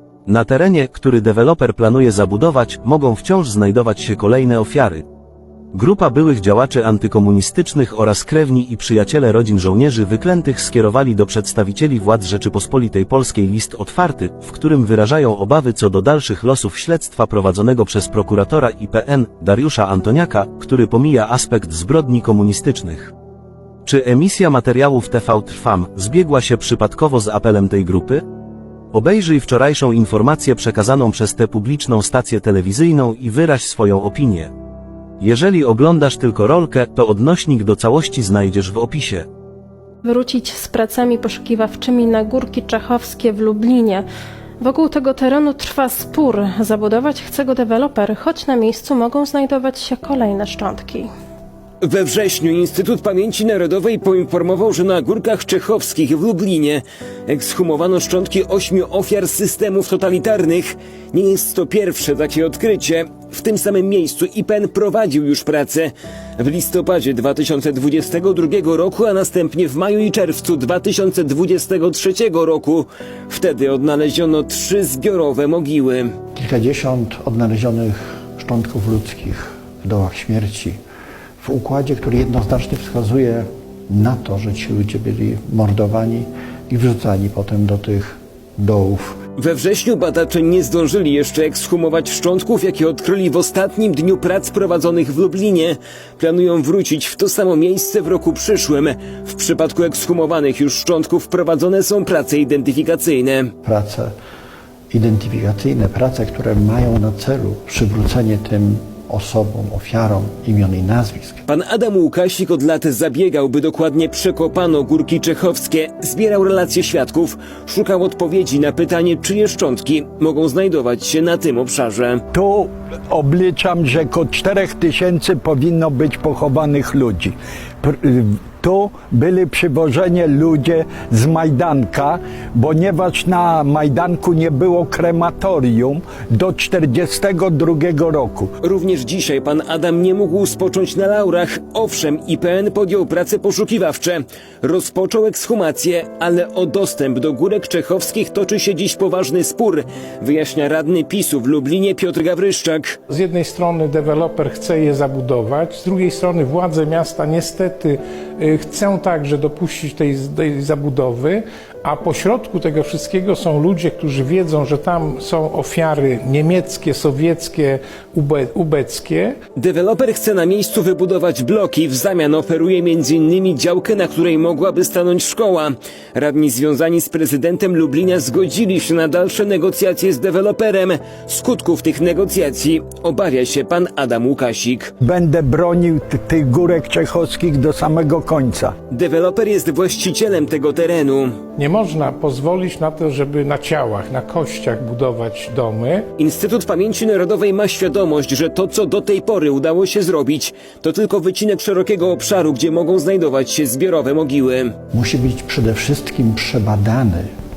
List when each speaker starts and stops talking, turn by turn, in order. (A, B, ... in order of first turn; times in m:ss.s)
0:00.3-0:05.0 A
0:05.7-0:23.1 A
0:23.8-0:28.2 A
0:28.9-0:34.5 A
0:35.2-0:39.3 A
0:40.0-0:44.0 B
0:44.6-0:51.1 B
0:51.8-1:16.1 C
1:16.4-1:20.8 D
1:21.4-1:29.2 D
1:29.4-1:43.5 C
1:43.6-1:44.1 D
1:44.9-1:51.4 D
1:51.5-2:02.2 C
2:02.3-2:18.5 E
2:18.6-2:33.0 C
2:33.1-2:49.4 F
2:49.6-3:04.9 C
3:05.0-3:08.7 E
3:08.9-3:11.3 C
3:11.6-3:16.1 F
3:16.2-3:24.7 C
3:24.9-3:27.3 D